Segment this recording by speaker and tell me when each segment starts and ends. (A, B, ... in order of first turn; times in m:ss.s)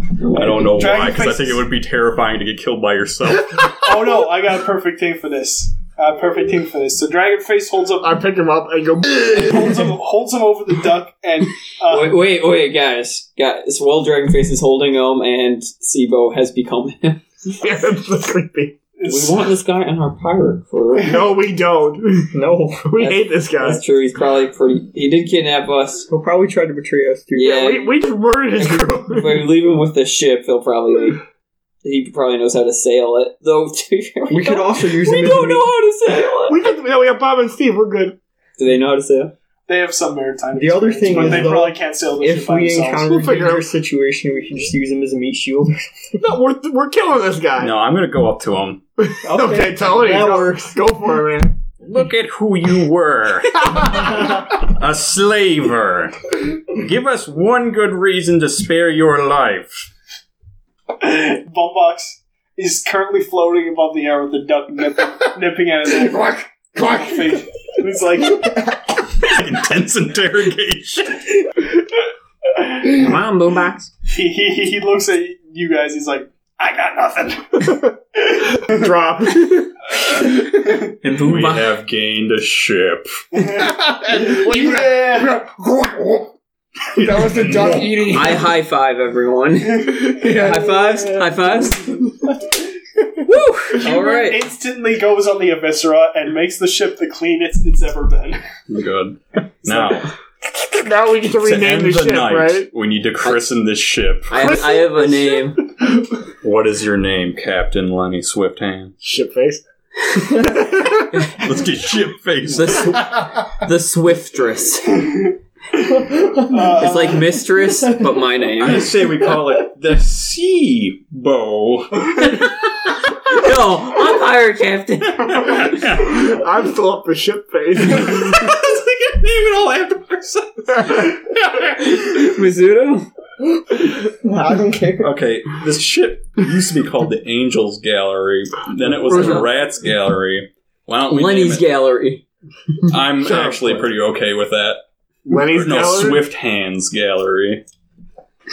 0:00.2-0:01.0 A
0:00.3-0:03.8 B
0:00.4-0:01.7 C
0:03.8-0:08.3 C
0:08.0-0:09.9 D
0:09.3-0:12.3 C
0:11.9-0:17.2 A
0:17.5-0:18.8 D
0:19.0-0:19.4 C
0:19.0-0:21.3 A
0:21.0-0:23.8 D
0:22.3-0:22.9 E
0:23.0-0:26.1 A
0:26.1-0:27.6 E
0:27.3-0:31.2 A
0:27.4-0:29.5 D
0:31.8-0:36.7 A
0:34.3-0:35.7 E
0:36.5-0:38.2 D
0:38.6-0:39.3 A
0:39.7-0:43.1 C
0:40.6-0:46.0 E
0:41.1-0:41.5 A
0:43.1-0:43.7 D
0:46.2-0:47.7 D
0:47.6-0:48.8 B
0:49.0-0:51.6 D
0:49.2-0:50.7 E
0:51.8-0:59.9 B
0:53.7-0:54.3 D
1:01.0-1:08.8 C
1:05.9-1:07.4 D
1:08.4-1:08.7 D
1:09.2-1:11.4 B
1:12.9-1:13.9 A
1:14.1-1:18.9 C
1:17.6-1:17.9 D
1:18.6-1:19.8 D
1:21.0-1:23.1 B
1:21.0-1:21.8 A
1:23.3-1:25.4 C
1:23.5-1:26.3 D
1:26.9-1:28.6 D
1:27.1-1:28.1 B
1:28.0-1:32.0 A
1:29.8-1:32.2 D
1:33.2-1:34.4 A
1:33.8-1:38.4 C
1:38.7-1:40.1 B
1:39.6-1:40.0 C
1:40.6-1:42.7 D
1:41.4-1:44.6 B
1:44.3-1:45.6 A
1:44.4-1:45.4 D
1:46.4-1:48.9 B
1:49.0-1:51.4 D
1:51.4-1:53.0 B
1:52.5-1:55.0 A
1:53.1-1:53.4 D
1:56.4-1:57.3 C
1:56.8-1:58.9 A
1:58.6-2:02.5 B
2:03.2-2:05.7 A
2:05.4-2:06.4 B
2:06.0-2:08.4 D
2:07.9-2:12.1 B
2:11.8-2:13.1 A
2:14.1-2:15.1 E
2:15.0-2:21.7 B
2:19.1-2:19.5 D
2:19.1-2:19.5 A
2:21.1-2:22.2 A
2:22.9-2:27.6 B
2:23.2-2:23.9 D
2:25.3-2:26.3 D